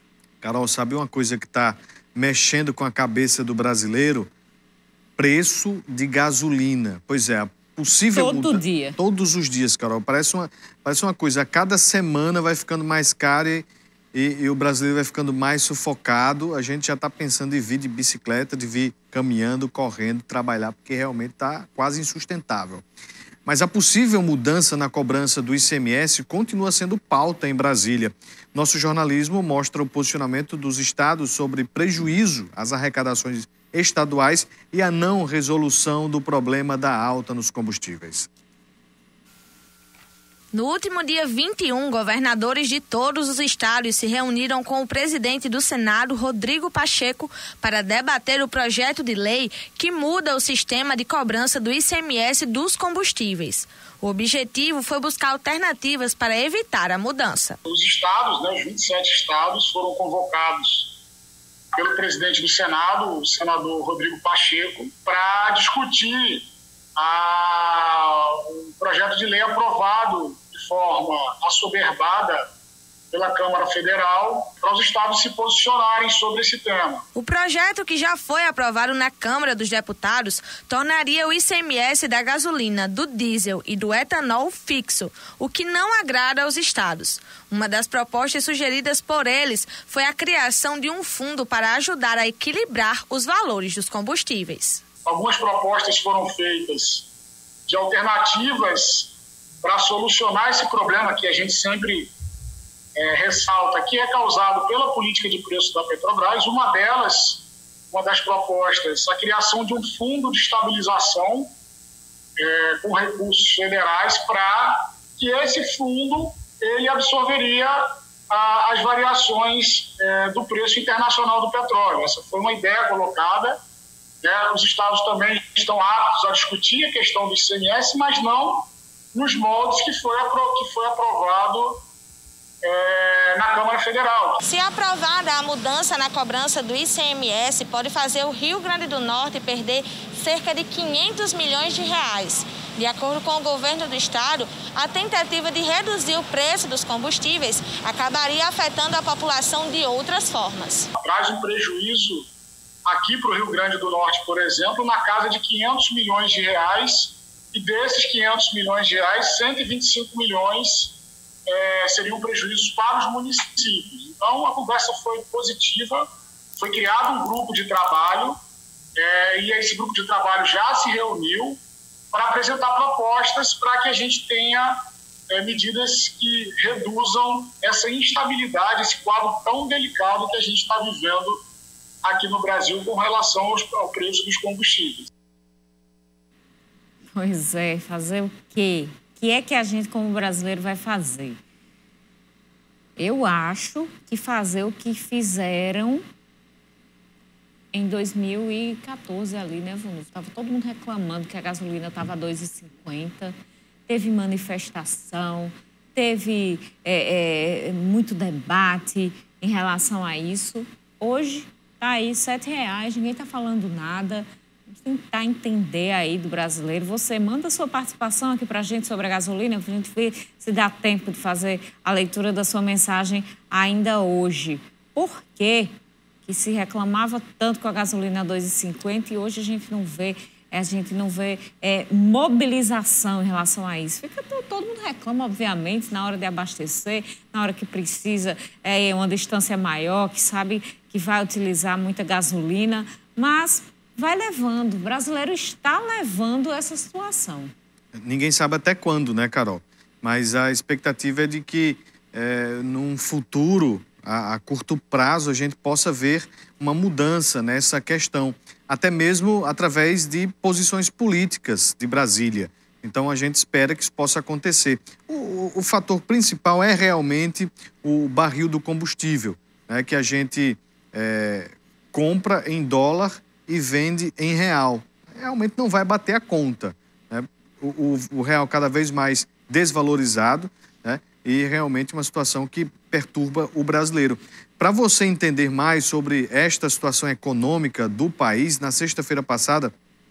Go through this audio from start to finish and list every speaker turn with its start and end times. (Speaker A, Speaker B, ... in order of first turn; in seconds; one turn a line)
Speaker A: 0.4-4.3
Speaker A: 5.2-22.8
Speaker B: 8.1-9.0
Speaker A: 23.4-38.3
Speaker C: 40.5-57.5
Speaker D: 57.7-60.9
Speaker D: 61.7-66.5
Speaker D: 67.0-72.4
Speaker D: 73.1-77.0
Speaker C: 77.1-94.8
Speaker D: 95.0-97.0
Speaker D: 97.7-99.1
Speaker D: 99.6-102.1
Speaker D: 103.0-111.5
Speaker D: 112.4-123.6
Speaker D: 124.2-131.8
Speaker D: 132.6-134.4
Speaker C: 134.4-150.9
Speaker D: 151.0-152.2
Speaker D: 152.8-160.9
Speaker D: 161.5-166.0
Speaker D: 166.6-168.4
Speaker D: 169.0-171.6
Speaker D: 172.1-174.8
Speaker D: 175.3-181.4
Speaker D: 182.0-185.1
Speaker B: 187.1-191.4
Speaker B: 193.0-196.0
Speaker B: 197.7-203.3
Speaker B: 203.9-225.7
Speaker B: 226.2-247.5
Speaker A: 248.0-289.7